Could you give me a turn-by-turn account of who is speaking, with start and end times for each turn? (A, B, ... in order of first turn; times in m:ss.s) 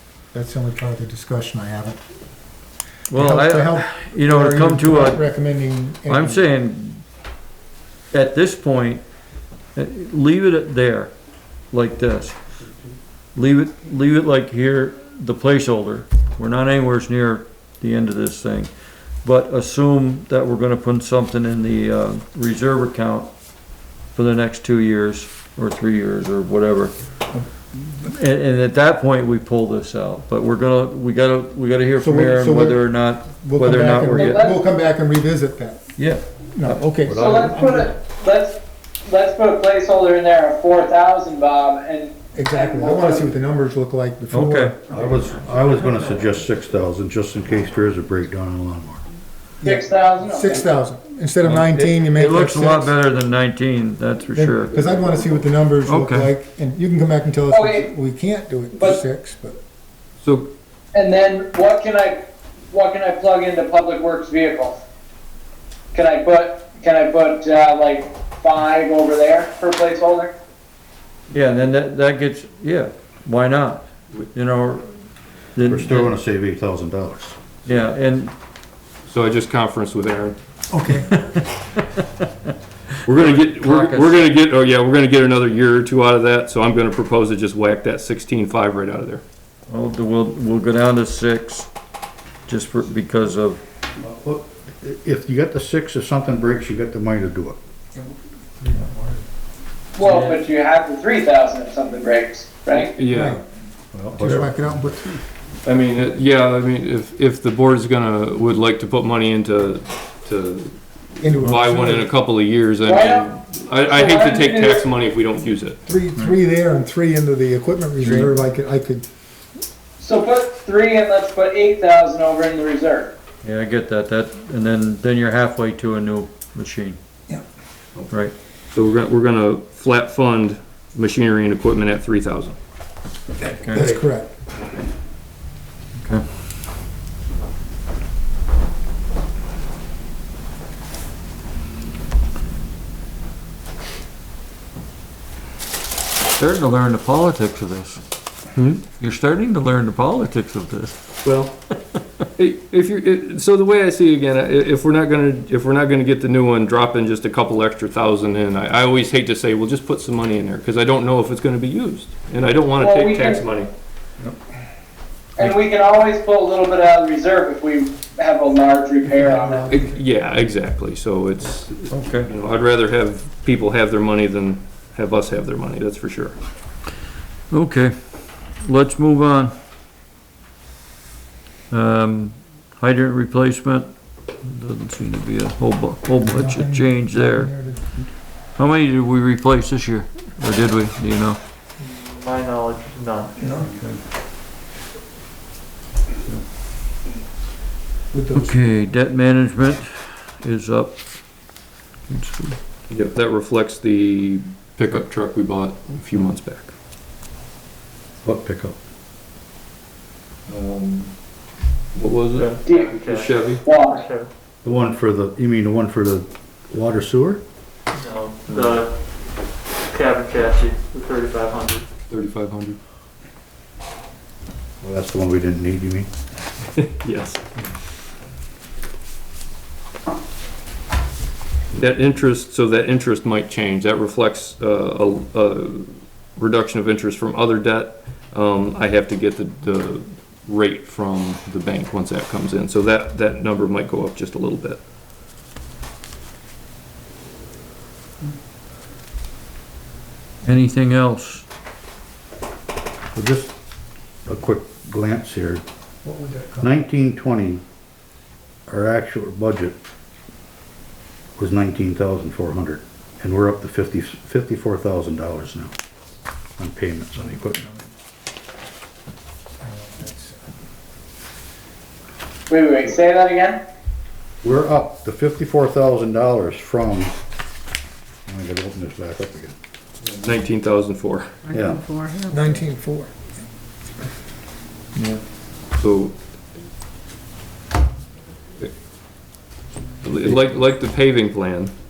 0:00.3-0:02.0 A
0:03.1-0:05.3 B
0:03.2-0:06.4 A
0:06.1-0:07.0 B
0:08.1-0:09.0 B
0:09.7-0:11.1 B
0:11.7-0:12.4 B
0:13.3-0:18.7 B
0:19.2-0:23.3 B
0:24.1-0:26.9 B
0:28.0-0:34.5 B
0:32.0-0:35.8 A
0:34.0-0:34.6 C
0:36.0-0:36.9 B
0:36.5-0:37.9 A
0:37.0-0:37.6 D
0:37.1-0:43.3 C
0:42.3-0:45.0 A
0:44.3-0:44.7 B
0:44.9-0:49.0 D
0:49.6-0:52.9 A
0:49.6-0:50.7 C
0:51.4-0:54.7 B
0:54.3-0:59.6 A
0:55.8-0:56.3 B
0:57.5-0:57.9 C
0:58.7-0:59.0 C
1:00.2-1:00.5 E
1:00.9-1:04.8 C
1:05.9-1:10.3 C
1:11.3-1:15.0 B
1:15.5-1:16.1 B
1:15.7-1:17.4 D
1:17.7-1:18.3 B
1:19.1-1:20.4 E
1:20.7-1:21.1 A
1:21.1-1:22.0 B
1:23.0-1:29.2 E
1:23.1-1:24.3 B
1:29.7-1:31.7 B
1:32.5-1:33.6 B
1:34.0-1:37.6 D
1:38.0-1:39.2 A
1:39.9-1:43.0 C
1:40.0-1:40.3 B
1:42.7-1:43.4 E
1:43.0-1:43.4 A
1:43.9-1:44.7 D
1:44.2-1:45.2 A
1:45.6-1:55.8 E
1:51.2-1:52.1 A
1:52.8-1:53.3 C
1:53.8-1:54.9 C
1:55.9-1:59.0 A
1:58.0-1:58.4 B
2:00.0-2:03.1 C
2:03.4-2:07.0 B
2:08.7-2:12.6 E
2:13.4-2:14.3 A
2:13.5-2:14.1 B
2:26.4-2:28.0 B
2:28.5-2:28.8 E
2:28.8-2:31.2 B
2:31.2-2:31.6 E
2:32.4-2:43.7 E
2:42.8-2:43.4 C
2:45.4-2:49.7 C
2:49.0-2:50.0 A
2:49.7-2:56.4 E
2:51.9-2:52.3 B
2:57.5-2:57.9 B
2:58.6-2:59.5 B
3:01.7-3:07.5 B
3:06.2-3:08.1 A
3:08.6-3:11.4 B
3:11.8-3:13.3 F
3:13.4-3:13.7 A
3:13.5-3:14.0 B
3:18.1-3:18.6 A
3:18.3-3:21.1 B
3:22.1-3:22.6 B
3:22.9-3:26.7 E
3:28.2-3:28.8 D
3:30.5-3:31.1 E
3:32.0-3:33.6 E
3:32.4-3:34.3 F
3:32.7-3:33.0 C
3:33.6-3:34.1 C
3:34.6-3:37.4 D
3:38.0-3:38.9 F
3:38.5-3:38.8 E
3:39.9-3:41.9 F
3:42.1-3:42.8 E
3:44.8-3:46.1 D
3:46.8-3:47.4 E
3:51.7-4:04.8 E
4:10.4-4:11.5 B
4:13.1-4:13.5 D
4:14.2-4:15.6 D
4:16.0-4:16.7 A
4:16.6-4:17.6 D
4:18.7-4:19.8 D
4:21.4-4:25.7 D
4:26.6-4:27.6 D
4:29.6-4:30.4 A
4:32.5-4:33.6 C
4:34.4-4:37.1 D
4:38.3-4:39.6 D
4:40.0-4:41.3 E
4:41.5-4:42.0 D
4:42.2-4:43.2 A
4:45.8-4:46.2 E
4:50.0-4:51.7 E